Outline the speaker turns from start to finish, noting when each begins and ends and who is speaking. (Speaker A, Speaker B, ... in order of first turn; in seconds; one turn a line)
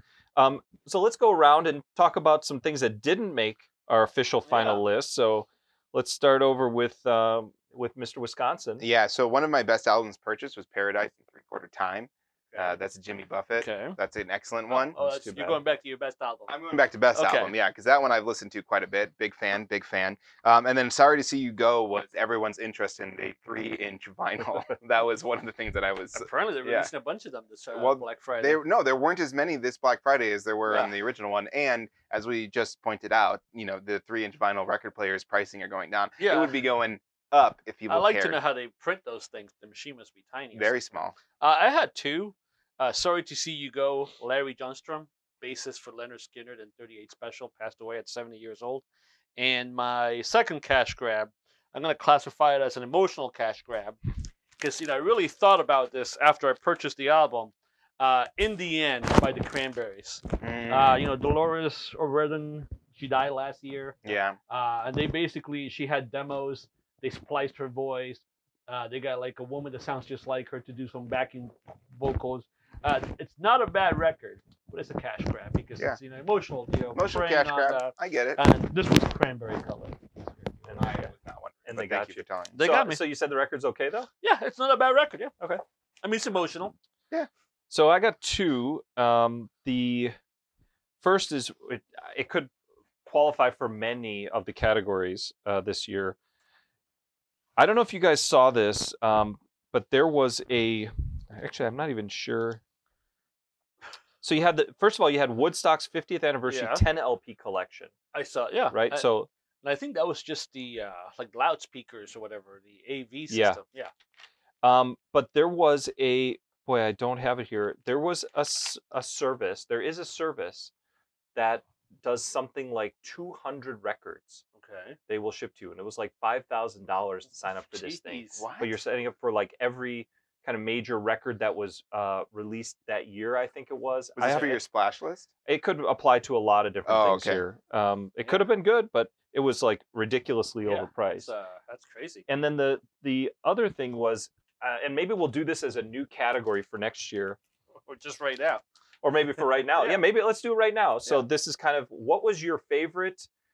Speaker A: 0.4-8.8
Speaker B: 4.5-4.8
Speaker C: 8.8-15.0
Speaker B: 12.5-12.8
Speaker B: 13.6-14.0
Speaker B: 14.7-16.6
Speaker A: 15.0-15.6
Speaker C: 16.5-26.9
Speaker B: 17.1-17.5
Speaker B: 26.1-28.6
Speaker C: 27.7-38.4
Speaker B: 36.2-36.6
Speaker B: 37.9-48.9
Speaker C: 40.5-41.2
Speaker B: 49.4-54.0
Speaker B: 54.6-80.2
Speaker C: 60.4-61.0
Speaker C: 64.0-64.4
Speaker C: 77.0-78.4
Speaker B: 80.8-81.1
Speaker C: 80.8-82.5
Speaker A: 81.7-84.1
Speaker B: 82.5-83.0
Speaker B: 84.2-85.3
Speaker B: 86.0-86.8
Speaker A: 87.7-90.2
Speaker A: 91.0-92.5
Speaker A: 93.0-96.2
Speaker A: 97.6-102.6
Speaker A: 104.2-107.9
Speaker B: 106.5-106.8
Speaker B: 108.1-109.1
Speaker A: 108.7-109.3
Speaker B: 109.6-113.9
Speaker A: 113.3-113.6
Speaker A: 114.6-120.7
Speaker A: 121.3-124.4
Speaker B: 124.6-125.0
Speaker A: 125.1-134.6
Speaker B: 127.7-128.5
Speaker C: 128.3-128.8
Speaker C: 134.2-135.3
Speaker A: 135.5-141.3
Speaker C: 136.9-137.4
Speaker B: 140.7-142.2
Speaker A: 142.3-147.4
Speaker B: 147.8-148.6
Speaker A: 149.0-153.3
Speaker B: 149.6-150.1